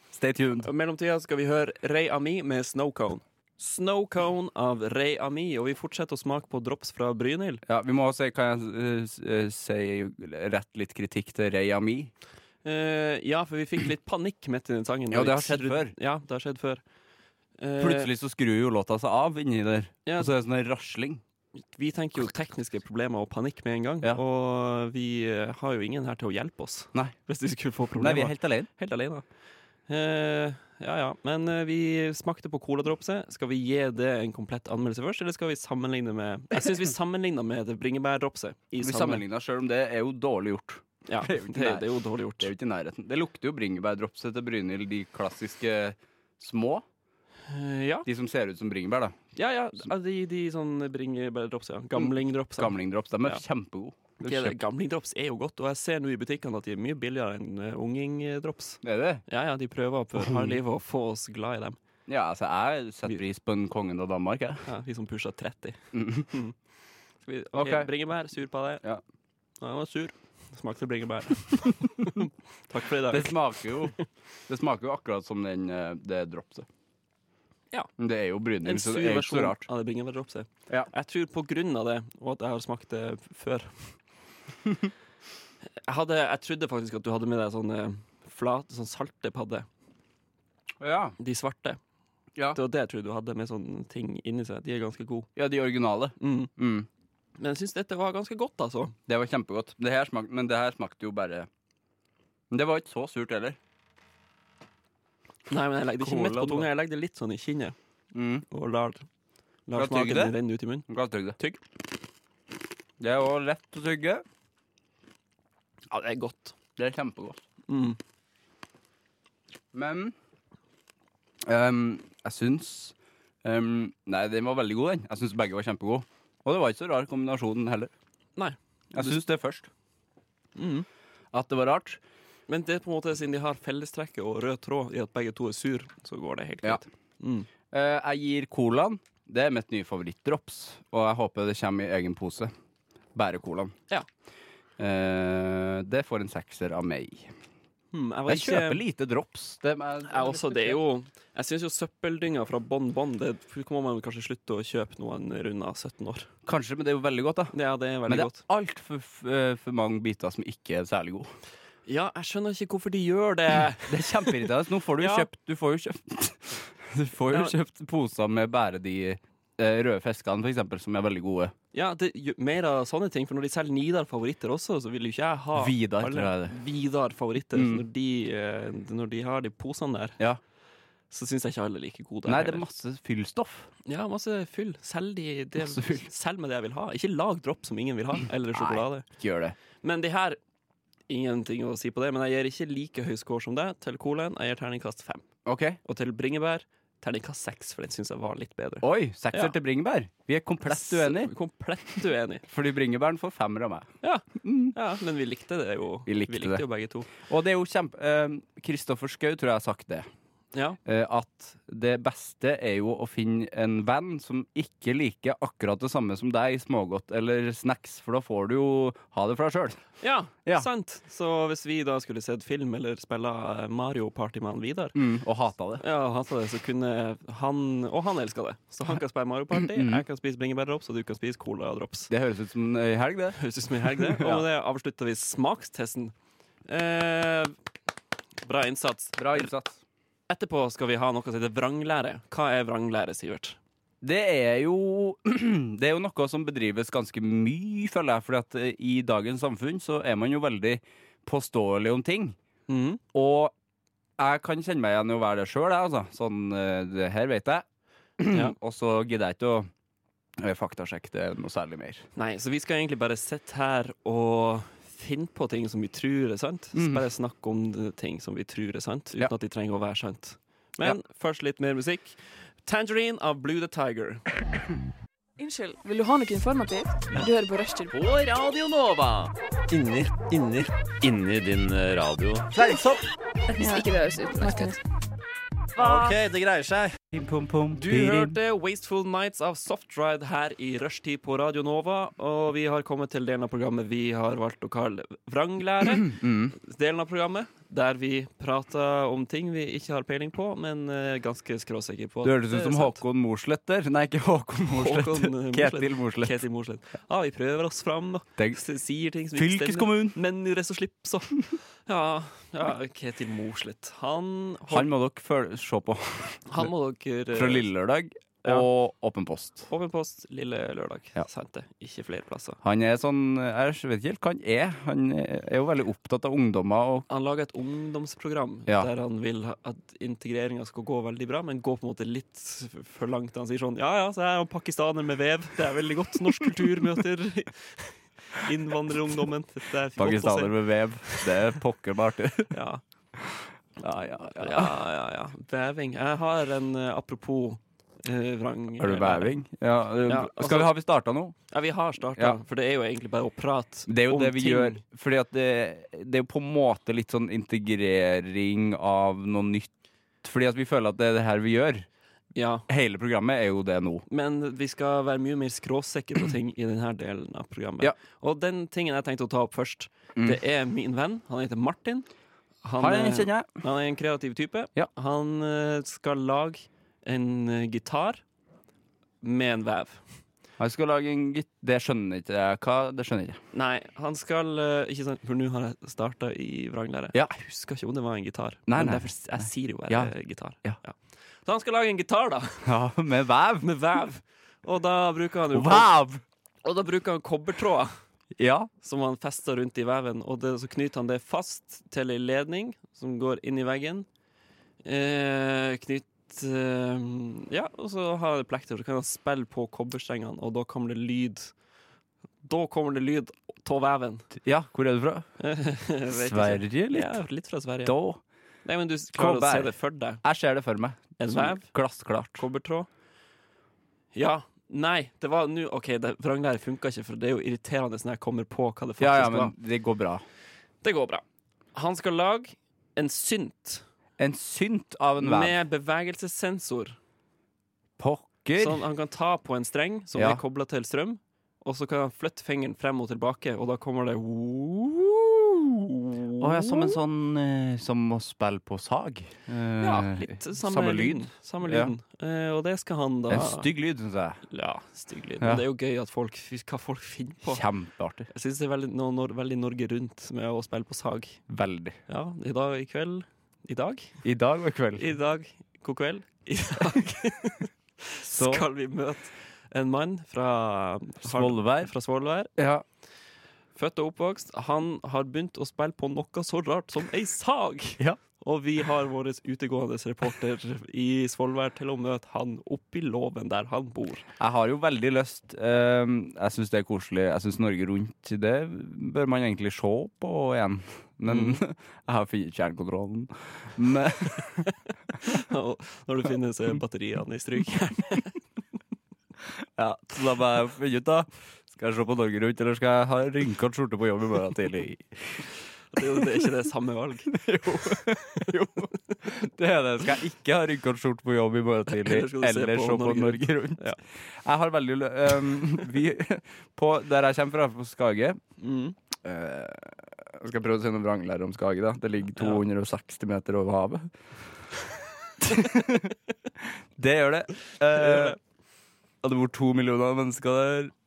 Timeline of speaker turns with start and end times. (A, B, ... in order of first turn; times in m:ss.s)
0:00.1-0:00.7 A
0:00.6-0:07.6 B
0:07.7-0:12.1 A
0:12.6-0:16.8 B
0:15.1-0:15.9 A
0:17.6-0:18.1 B
0:17.8-0:21.2 A
0:20.1-0:20.3 B
0:21.7-0:29.2 B
0:28.0-0:28.7 A
0:29.9-0:39.2 B
0:38.8-0:46.8 A
0:41.1-0:42.5 B
0:47.5-0:48.1 B
0:48.1-0:49.2 A
0:49.4-0:53.4 B
0:52.0-0:54.6 A
0:54.2-1:01.8 B
0:58.8-0:59.2 A
1:00.2-1:00.6 A
1:02.1-1:04.6 A
1:04.6-1:05.8 B
1:05.9-1:06.3 A
1:06.3-1:06.6 B
1:07.2-1:08.8 B
1:07.6-1:07.9 A
1:09.6-1:13.9 B
1:13.1-1:14.0 A
1:14.5-1:16.7 A
1:18.0-1:19.7 A
1:18.6-1:23.9 B
1:25.8-1:29.7 B
1:30.8-1:31.2 A
1:31.2-1:31.8 B
1:32.5-1:35.3 B
1:35.4-1:36.9 A
1:36.2-1:36.5 B
1:37.4-1:39.0 B
1:39.1-1:41.5 A
1:42.5-1:43.6 A
1:45.5-1:47.8 B
1:46.0-1:46.7 A
1:48.1-1:48.4 A
1:48.5-1:49.1 B
1:49.7-1:51.6 B
1:49.8-1:50.4 A
1:50.9-1:51.4 A
1:53.0-1:54.2 A
1:55.9-1:56.6 B
1:56.8-1:57.4 A
1:57.7-1:58.0 B
1:59.7-2:00.2 A
2:01.4-2:07.9 A
2:08.4-2:09.2 B
2:08.9-2:09.7 A
2:10.6-2:10.9 B
2:11.3-2:12.0 A
2:12.5-2:17.5 B
2:17.7-2:22.5 A
2:23.2-2:23.8 A
2:24.8-2:27.3 A
2:27.9-2:28.8 B
2:28.3-2:30.8 A
2:30.1-2:36.3 B
2:36.5-2:37.6 A
2:37.5-2:38.4 B
2:38.1-2:41.3 A
2:41.9-2:45.3 B
2:43.9-2:51.5 A
2:47.3-2:47.6 B
2:51.7-3:00.2 B
2:55.6-2:56.6 A
2:57.5-2:57.8 A
3:01.1-3:02.6 B
3:02.2-3:03.7 A
3:03.8-3:09.1 B
3:05.6-3:06.1 A
3:08.5-3:09.6 A
3:09.8-3:10.4 B
3:11.1-3:15.3 B
3:15.5-3:15.8 A
3:15.8-3:19.6 B
3:18.8-3:21.3 A
3:20.6-3:22.5 B
3:22.5-3:23.9 A
3:24.0-3:27.1 B
3:24.4-3:24.8 A
3:26.1-3:26.6 A
3:27.2-3:30.1 A
3:30.8-3:39.8 A
3:40.0-3:45.0 B
3:45.0-3:45.8 A
3:45.8-3:52.1 B
3:49.6-3:50.0 A
3:52.1-3:54.5 A
3:53.4-3:56.1 B
3:56.7-3:57.6 B
3:58.4-3:59.5 B
3:59.2-3:59.8 A
4:00.3-4:03.6 B
4:04.0-4:12.4 A
4:12.7-4:13.0 B
4:13.1-4:13.5 A
4:14.2-4:17.6 A
4:18.2-4:19.7 A
4:18.3-4:18.6 B
4:20.4-4:22.0 A
4:22.2-4:34.3 B
4:26.8-4:27.0 A
4:35.4-4:38.0 C
4:37.9-4:42.6 D
4:42.5-4:43.0 A
4:43.5-4:44.8 C
4:45.8-4:48.4 A
4:46.0-4:46.2 D
4:47.7-5:03.0 B
4:55.9-4:56.6 A
5:02.2-5:06.4 A
5:04.7-5:14.9 B
5:09.4-5:10.2 A
5:14.7-5:16.7 A
5:16.5-5:17.7 B
5:17.3-5:19.7 A
5:19.7-5:22.6 B
5:22.6-5:27.1 A
5:27.1-5:41.5 B
5:40.0-5:42.6 A
5:42.5-5:42.8 B
5:43.2-5:44.8 A
5:44.3-5:49.4 B
5:48.8-5:51.4 A
5:50.0-5:50.7 B
5:51.5-5:54.8 B
5:53.9-5:59.7 A
6:00.2-6:01.9 A
6:02.4-6:02.7 B
6:02.7-6:04.0 A
6:04.1-6:12.1 B
6:12.6-6:18.2 B
6:12.8-6:13.5 A
6:19.2-6:20.0 B
6:20.6-6:23.4 A
6:23.5-6:32.7 B
6:28.7-6:30.1 A
6:32.6-6:33.7 A
6:33.6-6:35.9 B
6:35.5-6:36.2 A
6:36.6-6:38.0 B
6:38.4-6:38.7 A
6:38.8-6:44.1 B
6:44.8-6:51.5 B
6:52.4-6:54.3 B
6:54.4-6:55.3 A
6:55.4-6:58.0 B
6:56.1-6:57.2 A
6:57.8-6:58.2 A
6:58.6-7:00.2 B
6:59.1-7:02.4 A
7:01.2-7:01.7 B
7:02.4-7:02.9 B
7:04.1-7:09.5 B
7:09.0-7:10.2 A
7:10.8-7:13.8 B
7:14.2-7:15.6 A
7:15.2-7:17.0 B
7:18.0-7:18.8 A
7:18.6-7:27.0 B
7:20.2-7:20.4 A
7:26.4-7:31.9 A
7:29.8-7:33.7 B
7:33.3-7:34.4 A
7:34.5-7:37.6 B
7:37.5-7:38.3 A
7:38.3-7:41.4 B
7:41.5-7:42.0 A
7:42.1-7:44.2 B
7:44.2-7:45.1 A
7:45.0-7:52.5 B
7:48.2-7:48.7 A
7:51.2-7:51.9 A
7:52.6-7:52.8 A
7:53.8-8:04.2 B
8:04.4-8:14.7 A
8:11.3-8:11.6 B
8:15.2-8:18.4 B
8:19.8-8:25.4 A
8:25.9-8:28.1 B
8:27.3-8:38.4 A
8:31.9-8:34.0 B
8:38.6-8:39.0 B
8:39.2-8:44.1 A
8:42.4-8:42.6 B
8:45.4-8:48.4 A
8:47.9-8:48.4 B
8:49.2-8:50.9 A